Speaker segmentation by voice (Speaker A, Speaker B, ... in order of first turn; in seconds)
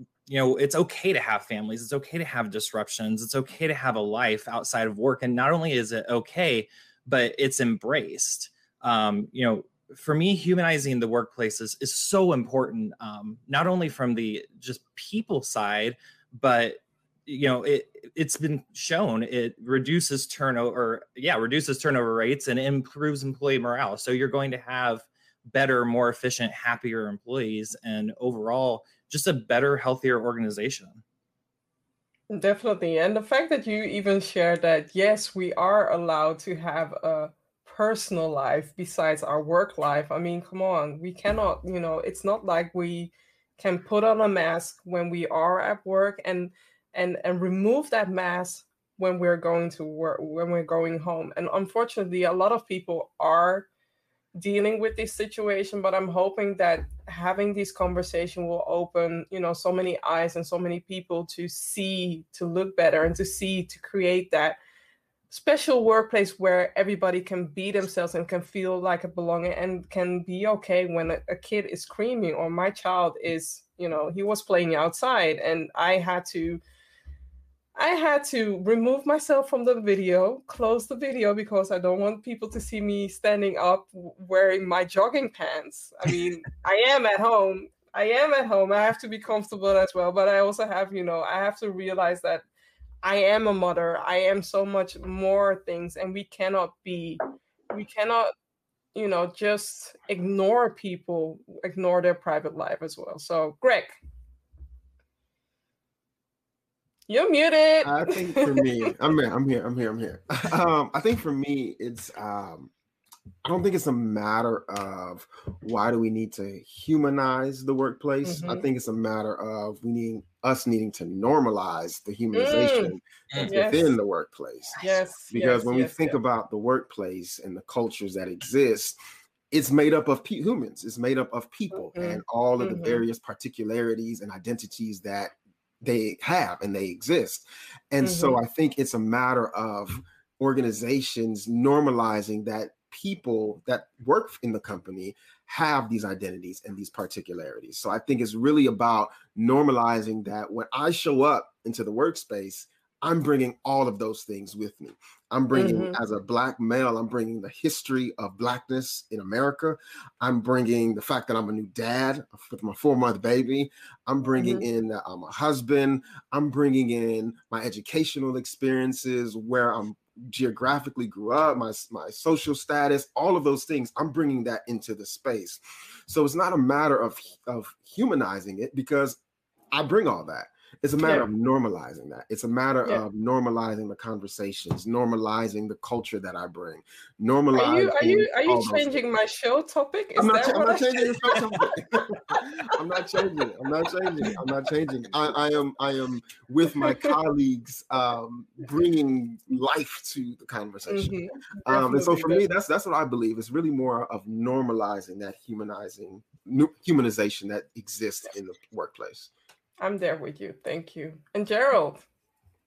Speaker A: 0.3-31.0
Speaker B: 32.3-53.7, 54.4-64.6, 65.3-76.6, 77.7-92.4, 93.0-98.3, 98.9-103.9, 107.1-108.6, 118.2-118.6, 122.3-122.9, 123.5-123.9, 124.8-126.2, 131.7-133.0, 138.0-138.4, 155.5-156.0, 164.4-164.6, 181.0-181.3, 187.5-191.4, 196.8-197.1, 200.9-202.4, 209.8-212.1
Speaker C: 107.8-112.7, 113.4-129.0, 129.5-179.2, 179.7-189.0, 190.2-209.3